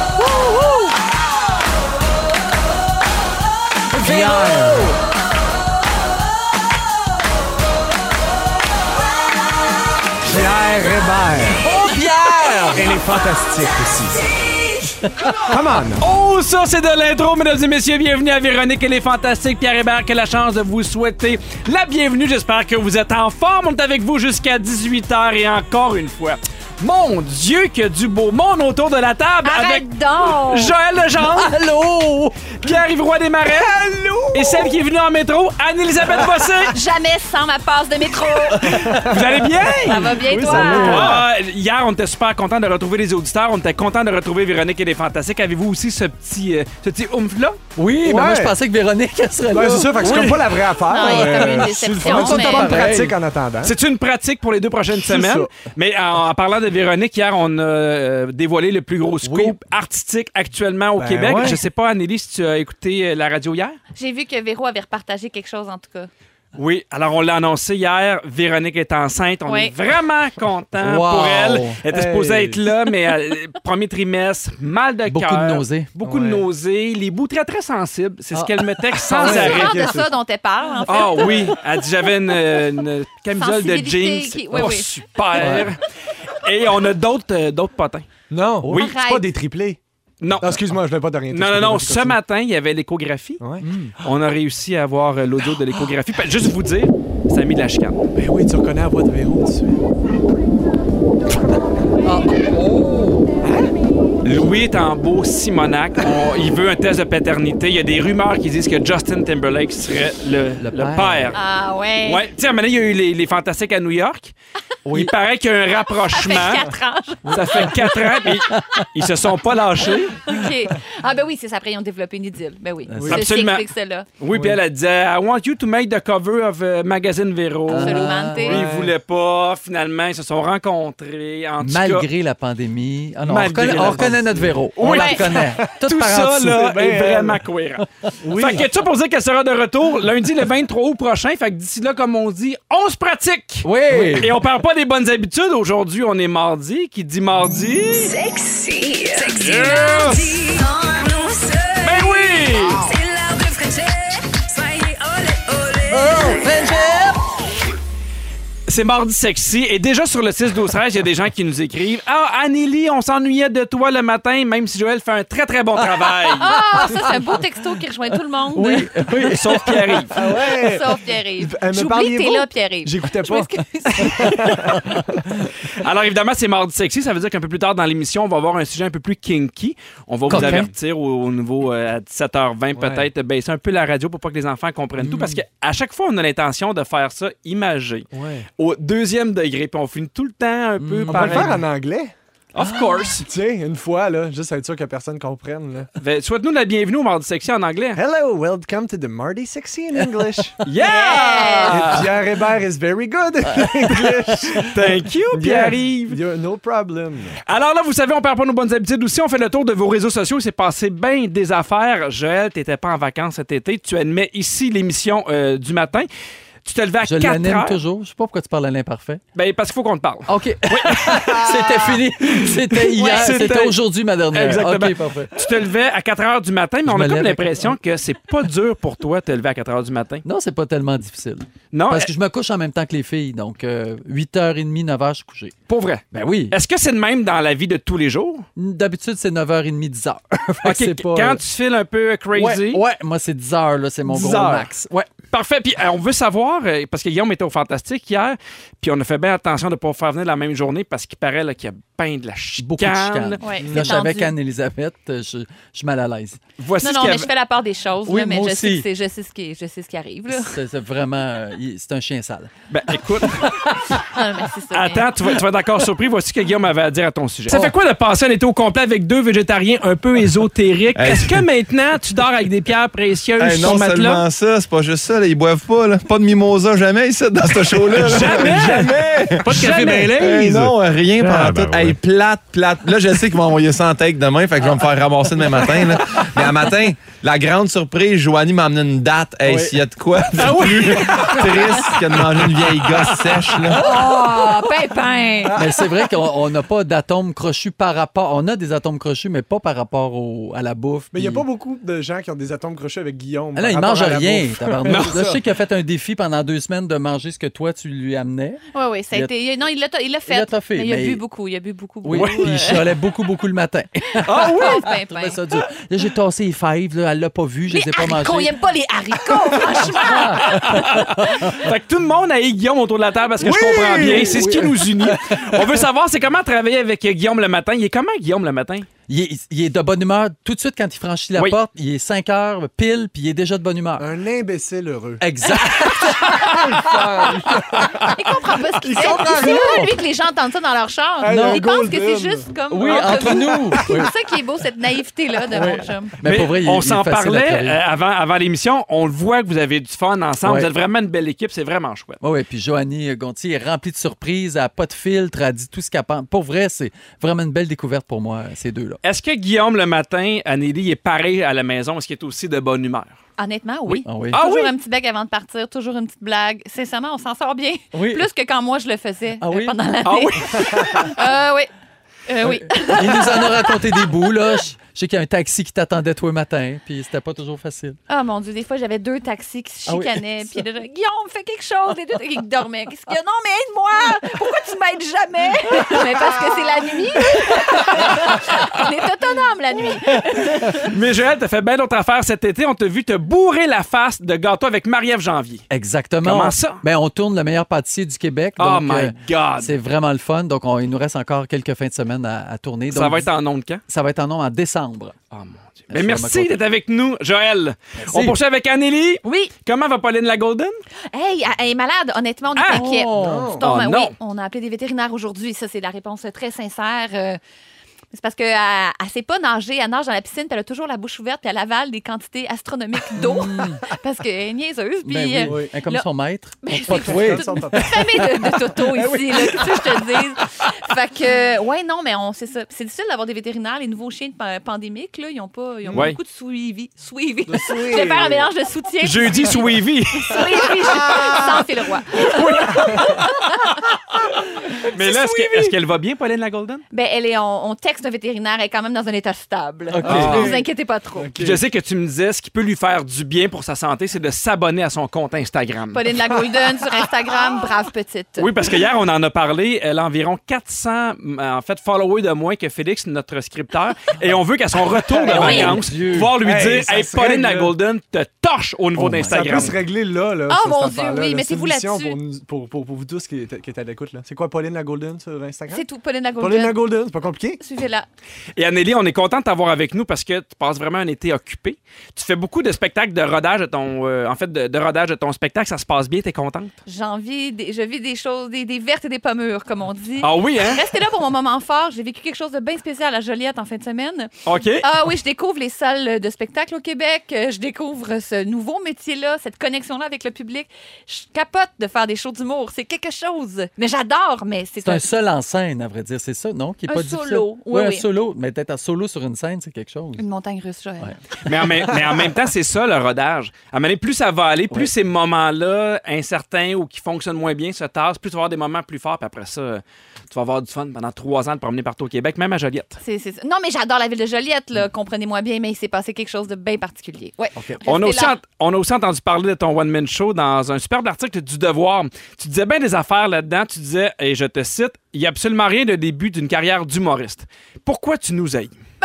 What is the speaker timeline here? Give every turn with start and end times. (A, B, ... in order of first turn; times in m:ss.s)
0:03.9-0:05.0 A
0:03.9-0:05.0 B
0:10.2-0:11.7 B
0:11.6-0:13.0 A
0:12.7-0:14.2 B
0:15.0-0:15.4 A
0:15.4-0:16.0 B
0:16.0-0:31.5 C
0:29.4-0:30.7 D
0:31.2-0:32.6 A
0:32.6-0:33.8 C
0:33.6-0:34.6 B
0:34.3-0:36.7 C
0:36.7-0:38.9 D
0:38.6-0:41.2 B
0:38.8-0:47.6 C
0:39.8-0:41.2 D
0:39.9-0:41.2 A
0:47.8-0:53.2 A
0:48.0-0:48.6 B
0:49.5-0:53.7 B
0:50.0-0:50.3 C
0:50.9-0:52.9 D
0:53.6-1:03.8 C
0:54.9-0:55.5 B
0:59.2-0:59.6 A
1:01.0-1:01.6 B
1:04.0-1:06.1 D
1:06.6-1:20.0 C
1:09.4-1:09.7 D
1:10.7-1:11.8 A
1:11.9-1:12.6 B
1:15.1-1:15.9 A
1:16.0-1:16.4 B
1:19.1-1:19.6 A
1:19.2-1:20.0 B
1:19.2-1:21.6 D
1:20.9-1:28.1 C
1:23.4-1:24.9 D
1:25.3-1:25.7 A
1:28.3-1:29.8 B
1:28.7-1:28.9 C
1:28.7-1:29.3 D
1:30.2-1:30.8 C
1:30.4-1:32.2 B
1:31.3-1:33.4 C
1:33.4-1:34.1 B
1:33.6-1:34.0 A
1:34.0-1:38.1 C
1:38.1-1:39.8 B
1:42.0-1:43.3 A
1:43.4-1:43.7 B
1:44.2-1:51.4 C
1:50.6-1:51.4 A
1:51.3-1:52.2 D
1:52.0-1:54.3 C
1:54.9-1:55.1 A
1:54.9-1:56.7 C
1:56.1-1:58.3 D
1:57.3-2:00.2 C
1:58.2-1:58.8 A
2:00.2-2:04.1 D
2:02.9-2:03.2 A
2:03.1-2:03.7 C
2:04.2-2:12.1 C
2:04.3-2:04.6 B
2:07.7-2:08.5 A
2:07.8-2:08.6 D
2:08.4-2:08.9 B
2:11.6-2:16.7 A
2:13.3-2:28.2 C
2:13.4-2:14.6 B
2:14.8-2:15.2 D
2:16.4-2:17.4 B
2:18.2-2:18.7 B
2:23.6-2:24.3 A
2:23.9-2:24.3 B
2:28.0-2:36.4 E
2:29.2-2:30.6 C
2:31.8-2:32.9 C
2:35.9-2:37.3 A
2:38.7-2:46.6 C
2:46.4-2:48.9 D
2:48.5-2:50.2 A
2:49.2-2:50.1 C
2:50.1-2:55.0 B
2:50.2-2:54.4 D
2:54.6-2:55.0 A
2:55.7-3:11.6 C
3:00.3-3:00.7 B
3:00.3-3:00.7 A
3:02.8-3:03.0 B
3:05.0-3:05.4 A
3:08.1-3:08.5 B
3:10.8-3:11.6 A
3:11.1-3:12.1 B
3:12.5-3:13.3 C
3:12.6-3:13.1 A
3:13.2-3:15.9 B
3:16.0-3:18.0 C
3:18.0-3:20.6 B
3:20.6-3:22.1 C
3:20.8-3:21.8 D
3:21.7-3:24.8 B
3:24.6-3:26.2 C
3:25.3-3:27.4 B
3:27.5-3:36.1 C
3:36.6-3:37.8 C
3:37.0-3:39.2 A
3:39.4-3:43.8 C
3:40.3-3:45.4 A
3:43.0-3:43.4 D
3:44.3-3:50.2 C
3:46.8-3:47.8 A
3:50.2-3:55.6 A
3:51.7-3:52.1 C
3:55.7-3:58.5 C
3:56.1-3:56.6 A
3:58.6-4:01.4 A
4:00.6-4:02.8 C
4:02.3-4:05.1 A
4:04.1-4:04.7 C
4:05.3-4:13.4 C
4:12.6-4:16.4 A
4:13.4-4:14.3 D
4:13.6-4:13.9 B
4:16.6-4:17.3 C
4:16.8-4:20.6 D
4:18.1-4:18.9 A
4:20.3-4:22.5 A
4:22.7-4:23.7 C
4:23.0-4:23.9 A
4:24.1-4:25.1 D
4:24.7-4:34.2 C
4:27.5-4:27.8 A
4:31.0-4:31.4 F
4:33.4-4:53.9 F
4:37.9-4:40.2 C
4:38.1-4:38.8 B
4:39.4-4:40.8 B
4:49.5-4:49.8 A
4:50.3-4:54.2 B
4:53.7-4:55.7 D
4:55.4-4:56.0 B
4:55.6-5:01.5 A
5:01.1-5:05.4 B
5:03.5-5:09.3 A
5:04.8-5:05.2 C
5:08.7-5:12.9 D
5:10.3-5:11.2 A
5:12.0-5:18.5 A
5:12.1-5:12.8 C
5:14.2-5:14.8 C
5:14.3-5:15.4 D
5:17.7-5:21.0 D
5:19.4-5:21.5 A
5:20.5-5:28.9 C
5:23.4-5:24.6 B
5:24.0-5:25.6 A
5:29.1-5:34.1 A
5:34.0-5:35.2 B
5:35.2-5:37.9 A
5:35.8-5:38.1 B
5:38.1-5:46.1 D
5:38.8-5:39.9 B
5:39.2-5:39.9 A
5:41.2-5:44.1 B
5:41.2-5:41.6 A
5:42.7-5:44.1 A
5:45.5-5:47.8 A
5:46.2-5:52.2 C
5:50.4-5:50.7 A
5:52.2-5:59.0 A
5:59.0-6:03.2 C
6:03.4-6:11.7 D
6:03.9-6:04.7 C
6:04.0-6:04.4 A
6:07.9-6:08.2 A
6:09.4-6:09.8 A
6:10.0-6:11.2 C
6:12.3-6:14.1 D
6:12.4-6:18.0 A
6:18.1-6:30.9 D
6:19.9-6:20.6 A
6:30.8-6:35.6 C
6:35.7-6:43.3 A
6:36.2-6:36.8 C
6:38.6-6:39.8 C
6:42.9-6:43.8 C
6:43.9-6:45.2 A
6:45.3-6:50.8 C
6:45.9-6:46.6 A
6:48.0-6:48.4 A
6:49.2-6:49.5 D
6:51.1-6:57.4 D
6:52.6-6:52.8 C
6:52.7-6:53.6 A
6:53.2-6:53.6 B
6:53.6-6:54.2 C
6:58.1-7:06.1 D
7:03.1-7:03.8 A
7:05.0-7:09.4 A
7:05.5-7:05.7 B
7:06.6-7:23.8 D
7:06.9-7:08.3 B
7:09.4-7:09.8 B
7:17.5-7:18.5 B
7:19.0-7:20.5 C
7:21.0-7:21.6 B
7:22.2-7:23.4 C
7:22.6-7:23.2 B
7:24.9-7:26.8 C
7:25.1-7:25.5 A
7:26.9-7:31.3 D
7:29.9-7:30.6 A
7:30.0-7:30.6 B
7:30.0-7:30.5 C
7:31.2-7:31.6 B
7:31.4-7:36.1 C
7:35.9-7:38.5 D
7:36.3-7:37.6 B
7:38.4-7:49.8 C
7:45.0-7:45.8 B
7:45.3-7:45.8 D
7:45.4-7:46.4 A
7:46.4-7:47.7 B
7:49.0-7:55.8 B
7:49.2-7:49.6 A
7:50.5-7:52.2 D
7:55.7-7:56.8 D
7:56.4-7:57.6 B
7:57.6-7:58.1 D
7:58.6-8:06.8 C
8:06.8-8:25.1 D
8:10.2-8:10.9 C
8:14.4-8:14.9 C
8:24.8-8:30.2 A
8:26.9-8:28.1 D
8:30.2-8:31.1 D
8:31.4-8:43.0 C
8:43.0-8:48.4 D
8:47.8-8:58.8 C